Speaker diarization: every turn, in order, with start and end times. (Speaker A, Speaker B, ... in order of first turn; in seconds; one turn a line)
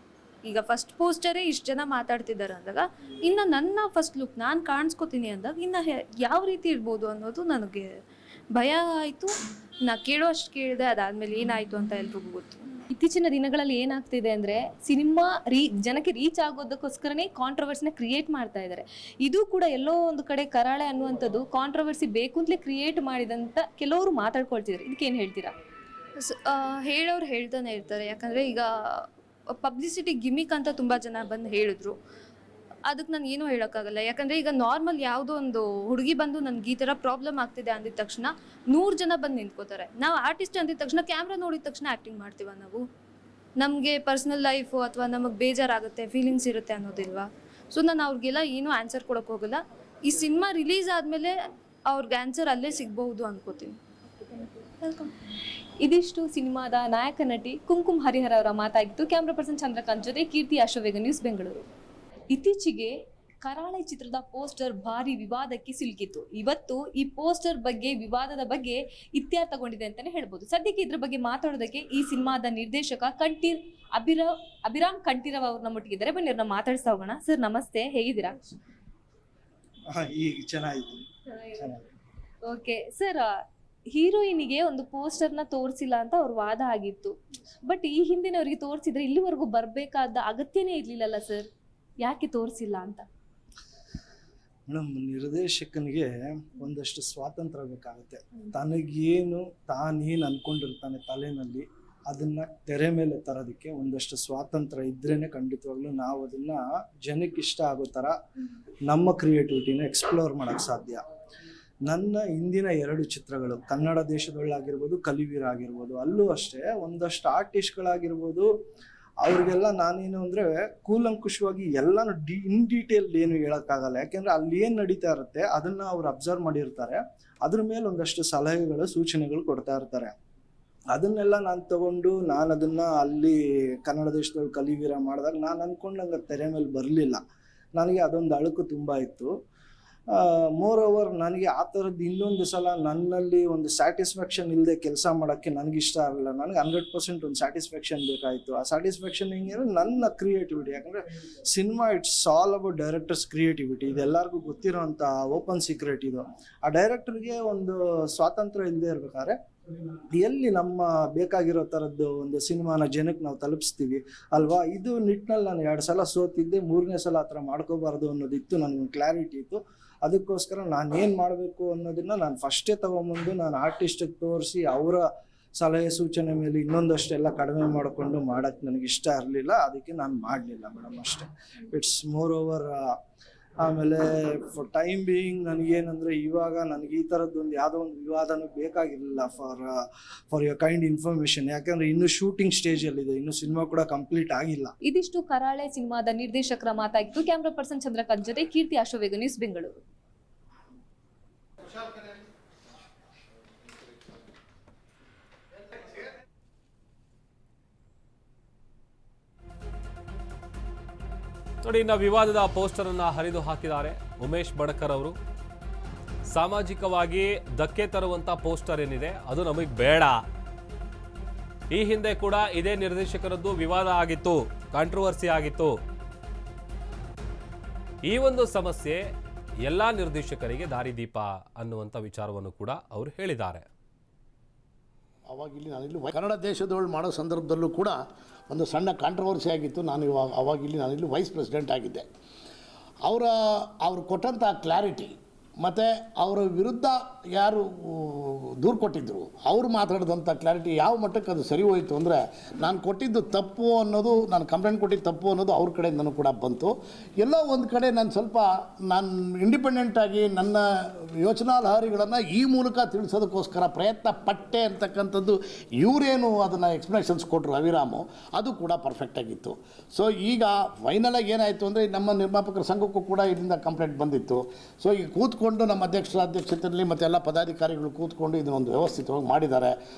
Speaker A: 0.4-8.0
Speaker A: 8.5-9.3
Speaker A: 9.8-12.6
Speaker B: 12.9-25.5
Speaker A: 26.2-29.1
Speaker A: 29.6-32.0
Speaker A: 32.9-42.8
Speaker A: 43.6-51.4
Speaker A: 51.9-53.8
Speaker B: 54.6-55.1
Speaker B: 55.8-61.6
Speaker B: 62.3-78.5
Speaker C: 79.9-81.0
Speaker B: 81.3-81.8
Speaker C: 81.6-81.8
Speaker B: 82.5-83.3
Speaker B: 83.9-87.1
Speaker B: 87.7-91.5
Speaker B: 92.0-93.0
Speaker C: 94.7-108.2
Speaker C: 108.9-111.0
Speaker C: 111.9-118.5
Speaker C: 119.2-130.1
Speaker C: 130.9-137.2
Speaker C: 137.7-139.3
Speaker C: 140.1-151.0
Speaker C: 151.5-159.3
Speaker C: 160.1-175.0
Speaker C: 175.5-182.9
Speaker C: 183.6-189.8
Speaker C: 190.3-194.7
Speaker B: 194.8-199.8
Speaker D: 211.6-215.2
Speaker D: 216.2-220.2
Speaker D: 221.7-225.8
Speaker D: 228.0-229.0
Speaker D: 229.6-233.7
Speaker E: 235.3-238.0
Speaker E: 238.5-242.0
Speaker E: 243.1-279.7